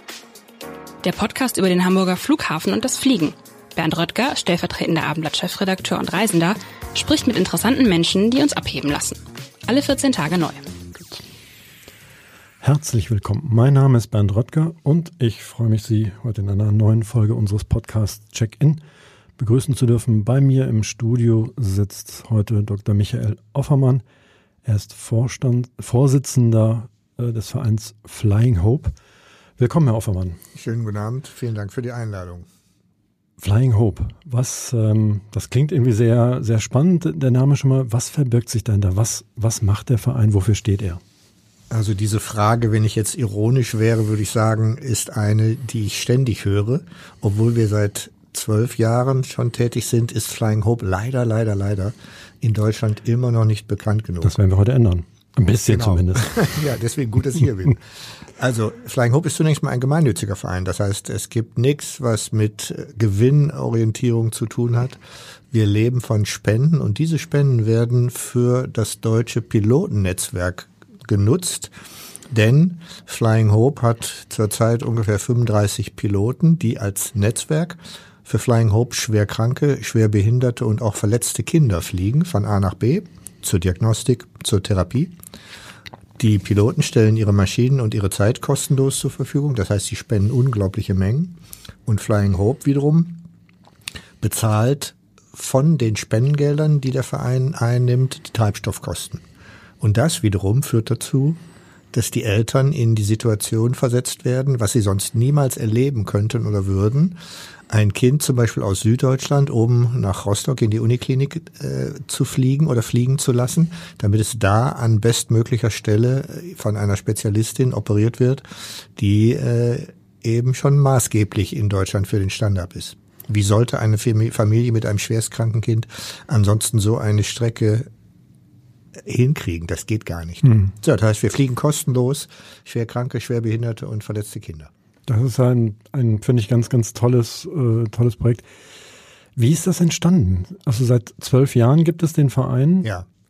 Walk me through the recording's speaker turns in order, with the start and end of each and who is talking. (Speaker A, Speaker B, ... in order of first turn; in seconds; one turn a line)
Speaker A: 1.0-10.6
Speaker B: 12.6-18.8
Speaker B: 19.4-24.0
Speaker B: 24.6-28.9
Speaker B: 29.6-30.4
Speaker C: 30.5-32.5
Speaker B: 33.4-41.0
Speaker C: 41.7-54.4
Speaker B: 54.2-56.4
Speaker C: 55.7-71.7
Speaker C: 72.3-85.1
Speaker C: 86.2-93.2
Speaker C: 94.2-99.2
Speaker C: 99.8-101.4
Speaker C: 101.9-107.2
Speaker C: 107.7-118.4
Speaker C: 119.0-127.9
Speaker C: 129.0-134.7
Speaker B: 130.4-130.7
Speaker B: 135.1-138.4
Speaker B: 139.3-142.9